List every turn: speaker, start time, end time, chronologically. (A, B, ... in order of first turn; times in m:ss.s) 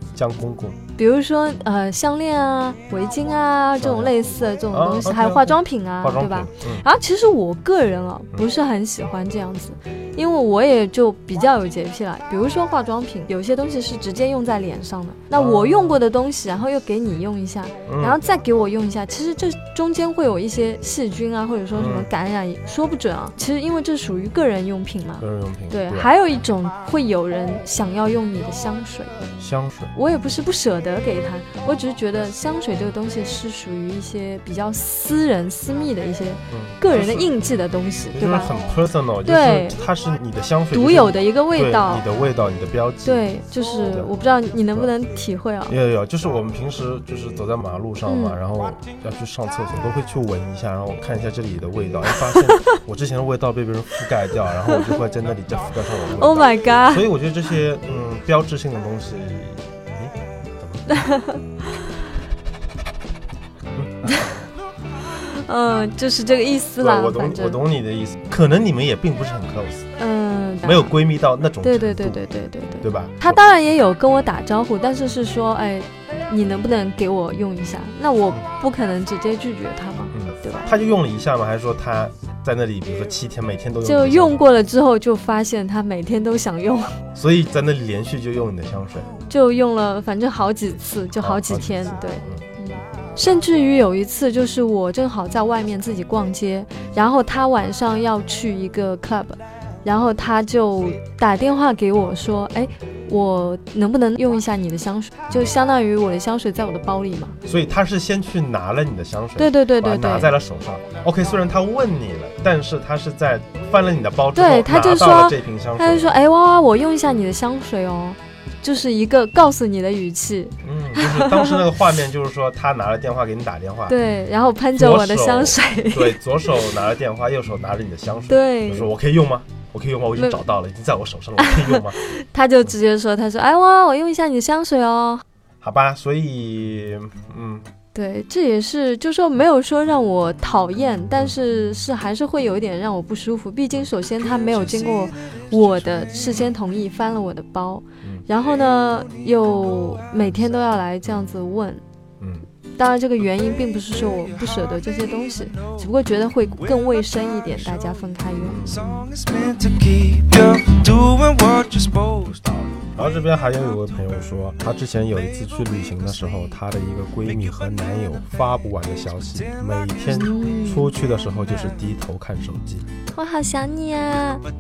0:00.2-0:00.8 A
0:01.0-0:29.2 B
0:03.8-0:06.8 A
0:15.3-0:16.0 A
0:17.9-0:18.2 A
0:21.7-0:22.1 A
0:25.2-0:26.1 A
0:29.4-0:29.9 A
0:29.9-0:38.5 B
0:36.5-0:37.4 A
0:38.1-0:43.2 A
0:39.3-0:39.8 B
0:40.7-0:42.0 B
0:43.0-0:45.8 B
0:45.7-1:00.9 A
0:48.1-0:48.4 B
0:52.2-0:52.8 B
0:56.1-0:57.1 B
1:00.9-1:01.4 B
1:03.8-1:04.3 A
1:05.1-1:07.6 B
1:06.8-1:09.9 A
1:10.0-1:11.0 B
1:10.6-1:12.2 A
1:11.6-1:20.7 B
1:12.8-1:13.4 A
1:20.1-1:24.4 A
1:23.8-1:27.0 B
1:27.2-1:29.1 A
1:29.3-1:47.4 B
1:31.2-1:32.4 A
1:47.4-1:56.1 A
1:49.4-1:50.3 B
1:54.4-2:01.6 B
2:00.6-2:04.0 A
2:03.9-2:06.2 B
2:04.8-2:12.0 A
2:08.3-2:08.9 B
2:10.2-2:10.4 B
2:11.4-2:15.2 B
2:15.6-2:17.6 A
2:17.9-2:31.8 B
2:32.2-2:32.4 A
2:32.8-2:38.6 B
2:38.4-2:39.1 A
2:38.7-2:42.4 C
2:42.3-2:52.9 A
2:50.1-2:50.9 B
2:53.2-2:54.4 B